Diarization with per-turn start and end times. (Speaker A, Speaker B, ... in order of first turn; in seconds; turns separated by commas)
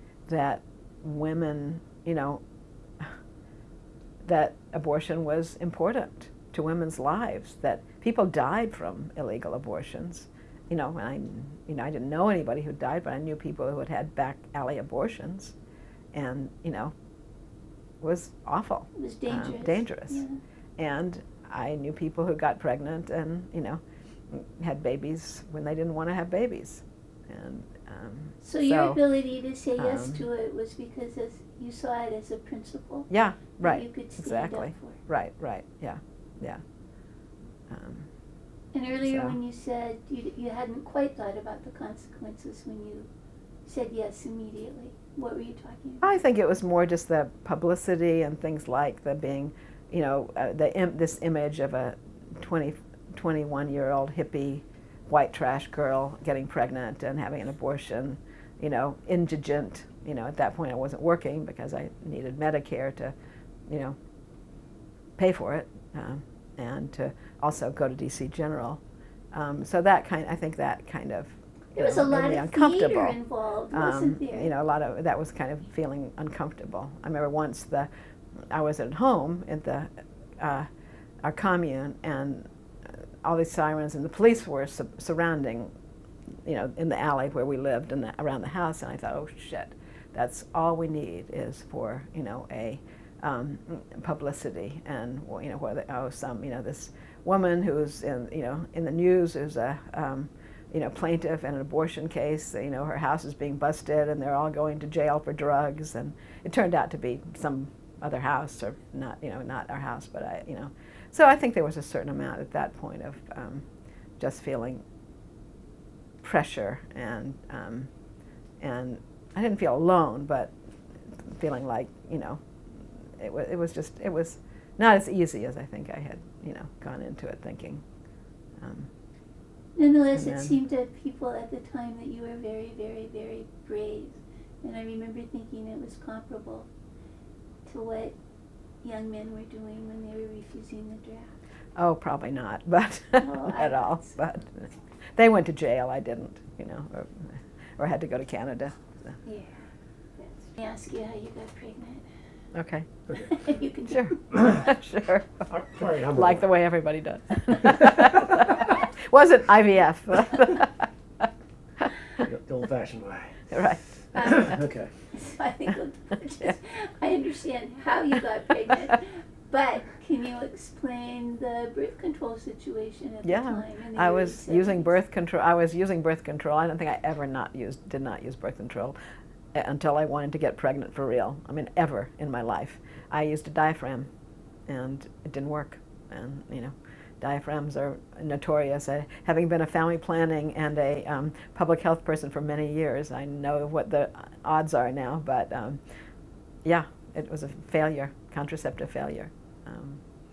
Speaker A: 0.3-2.4, Speaker A: 4.2-15.6, Speaker A: 16.1-16.9, Speaker A: 18.0-20.2, Speaker B: 18.9-20.4, Speaker A: 20.8-29.0, Speaker B: 28.4-35.0, Speaker A: 29.8-30.2, Speaker A: 33.1-36.6, Speaker A: 37.7-38.1, Speaker B: 38.7-43.1, Speaker A: 39.0-39.4, Speaker B: 43.6-46.1, Speaker A: 46.0-63.1, Speaker A: 63.7-64.0, Speaker A: 65.2-68.8, Speaker A: 69.3-73.2, Speaker B: 71.8-74.5, Speaker A: 73.7-77.9, Speaker A: 78.5-80.7, Speaker A: 81.2-82.5, Speaker A: 83.2-85.7, Speaker A: 86.5-113.7, Speaker A: 114.2-114.8, Speaker A: 116.2-117.9, Speaker A: 118.6-120.5, Speaker A: 121.2-127.8, Speaker A: 128.6-128.9, Speaker B: 129.8-136.7, Speaker A: 130.1-130.6, Speaker B: 137.7-138.2, Speaker B: 138.8-141.3, Speaker A: 141.8-149.2, Speaker B: 143.2-144.1, Speaker B: 149.2-152.1, Speaker A: 152.5-152.9, Speaker B: 153.1-154.2, Speaker A: 153.9-155.5, Speaker C: 154.3-154.6, Speaker C: 155.5-156.4, Speaker A: 156.0-161.3, Speaker C: 157.6-158.4, Speaker A: 161.8-162.2, Speaker C: 162.2-163.6, Speaker A: 163.5-164.6, Speaker B: 164.1-164.6, Speaker C: 164.1-164.9, Speaker B: 165.1-175.0, Speaker A: 173.2-178.9, Speaker A: 179.5-184.1, Speaker A: 184.7-195.8, Speaker A: 196.7-200.0